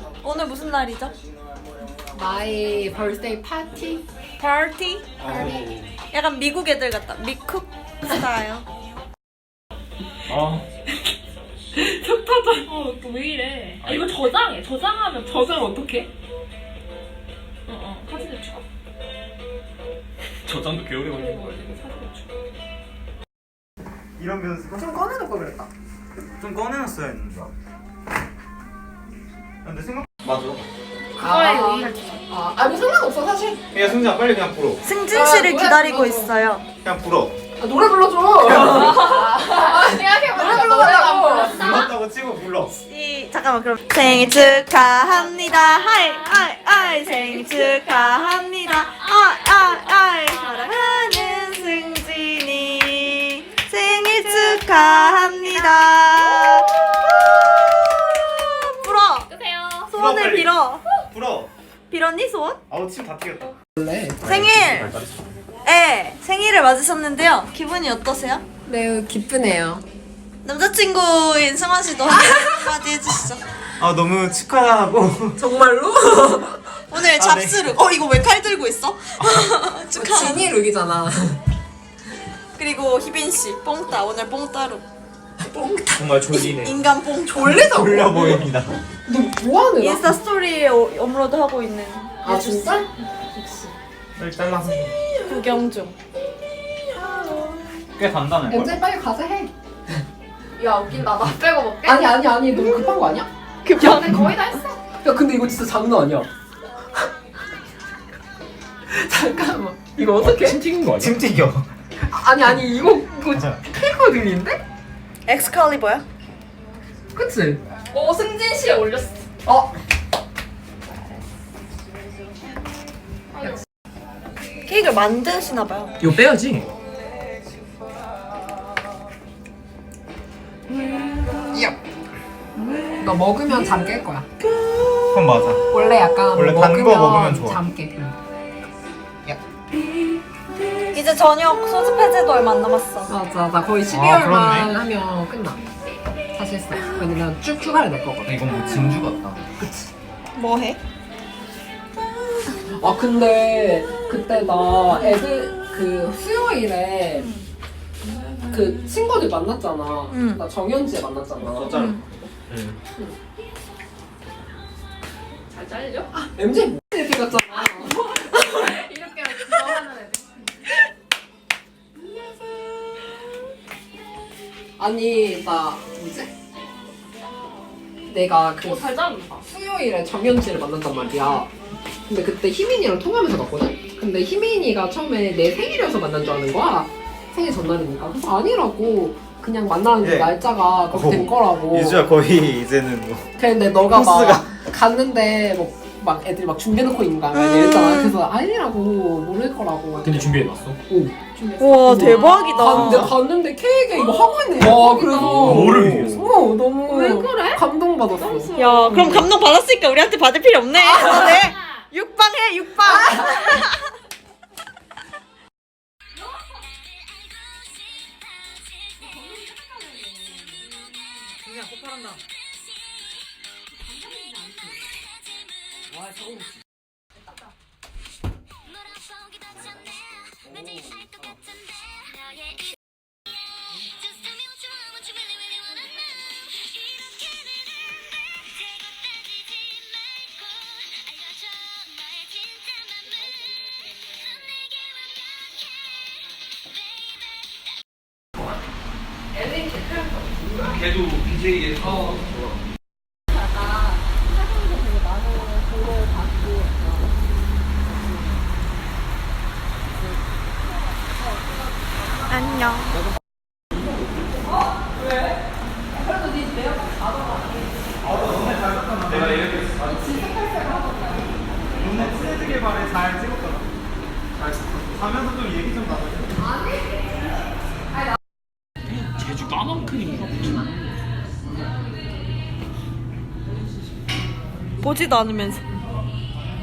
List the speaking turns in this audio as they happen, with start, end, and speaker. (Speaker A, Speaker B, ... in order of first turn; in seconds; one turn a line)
Speaker A: 0.2-1.1
Speaker B: 2.1-4.0
Speaker A: 4.4-5.1
Speaker C: 5.2-5.9
Speaker B: 5.2-5.6
Speaker A: 6.1-8.6
Speaker C: 10.3-10.6
Speaker D: 10.3-10.6
Speaker E: 11.8-16.1
Speaker B: 11.9-12.4
Speaker C: 13.8-14.1
Speaker B: 15.5-15.9
Speaker E: 17.7-18.6
Speaker C: 20.4-21.4
Speaker D: 20.7-21.0
Speaker E: 21.0-22.3
Speaker C: 24.2-24.9
Speaker B: 24.7-25.7
Speaker C: 26.4-27.5
Speaker C: 29.6-30.6
Speaker B: 31.2-33.6
Speaker E: 31.2-32.2
Speaker C: 33.7-34.8
Speaker A: 34.8-36.6
Speaker B: 35.1-36.3
Speaker C: 36.8-37.3
Speaker B: 37.6-41.7
Speaker E: 38.8-41.8
Speaker C: 41.3-42.8
Speaker A: 42.8-59.3
Speaker E: 59.3-59.9
Speaker A: 59.9-60.8
Speaker C: 59.9-60.5
Speaker C: 61.1-61.5
Speaker A: 61.9-62.6
Speaker C: 62.7-63.5
Speaker B: 63.8-64.2
Speaker A: 64.2-65.0
Speaker D: 64.4-65.0
Speaker A: 65.6-68.4
Speaker B: 68.7-69.8
Speaker A: 70.4-73.4
Speaker C: 73.8-75.4
Speaker B: 75.4-76.7
Speaker A: 76.8-80.5
Speaker C: 77.1-77.7
Speaker B: 79.9-81.4
Speaker A: 82.5-84.8
Speaker B: 85.5-86.2
Speaker C: 86.0-86.7
Speaker A: 86.2-87.9
Speaker B: 87.3-88.4
Speaker C: 87.5-88.8
Speaker B: 89.0-90.2
Speaker A: 89.8-93.7
Speaker B: 92.2-92.8
Speaker C: 94.2-95.0
Speaker A: 95.2-95.9
Speaker B: 96.9-97.8
Speaker C: 97.9-98.7
Speaker B: 98.5-99.5
Speaker E: 101.1-101.9
Speaker B: 101.8-104.3
Speaker A: 103.6-104.2
Speaker E: 103.9-104.8
Speaker B: 104.9-106.3
Speaker B: 108.9-110.6
Speaker D: 110.2-111.2
Speaker C: 110.8-111.7
Speaker B: 112.0-114.6
Speaker A: 115.2-116.0
Speaker B: 117.1-117.6
Speaker E: 117.9-119.2
Speaker B: 119.5-119.7
Speaker A: 124.7-125.9
Speaker D: 126.0-126.6
Speaker B: 126.0-126.4
Speaker B: 133.0-134.3
Speaker C: 135.1-135.6
Speaker B: 135.7-138.1
Speaker C: 136.3-137.6
Speaker A: 140.9-143.1
Speaker B: 143.1-145.6
Speaker C: 143.8-144.7
Speaker B: 146.3-148.3
Speaker C: 148.2-149.4
Speaker A: 150.3-150.8
Speaker B: 152.7-157.3
Speaker A: 157.1-157.5
Speaker B: 158.5-161.7
Speaker A: 160.1-160.4
Speaker C: 161.4-162.0
Speaker A: 161.7-162.0
Speaker E: 165.5-166.1
Speaker B: 166.1-168.8
Speaker E: 168.0-170.4
Speaker B: 174.8-176.3
Speaker B: 178.1-181.5
Speaker E: 178.6-179.4
Speaker B: 182.1-192.1
Speaker C: 190.0-190.3
Speaker C: 190.9-193.3
Speaker B: 193.4-209.2
Speaker C: 193.9-194.4
Speaker A: 197.3-198.1
Speaker D: 200.0-200.8
Speaker A: 201.6-203.2
Speaker E: 201.7-202.5
Speaker E: 204.8-205.3
Speaker D: 205.1-206.2
Speaker C: 205.7-206.1
Speaker E: 206.8-207.6
Speaker A: 208.4-213.9
Speaker E: 219.3-220.1
Speaker C: 221.4-222.2
Speaker E: 249.3-250.8
Speaker D: 250.6-252.6
Speaker B: 251.8-252.1
Speaker B: 254.4-256.9
Speaker A: 262.3-263.0
Speaker B: 265.9-267.6
Speaker C: 268.0-269.8
Speaker D: 269.3-269.7
Speaker B: 269.8-271.3
Speaker C: 271.8-273.7
Speaker C: 274.9-276.4
Speaker B: 276.4-277.0
Speaker D: 278.9-280.9
Speaker A: 284.8-285.6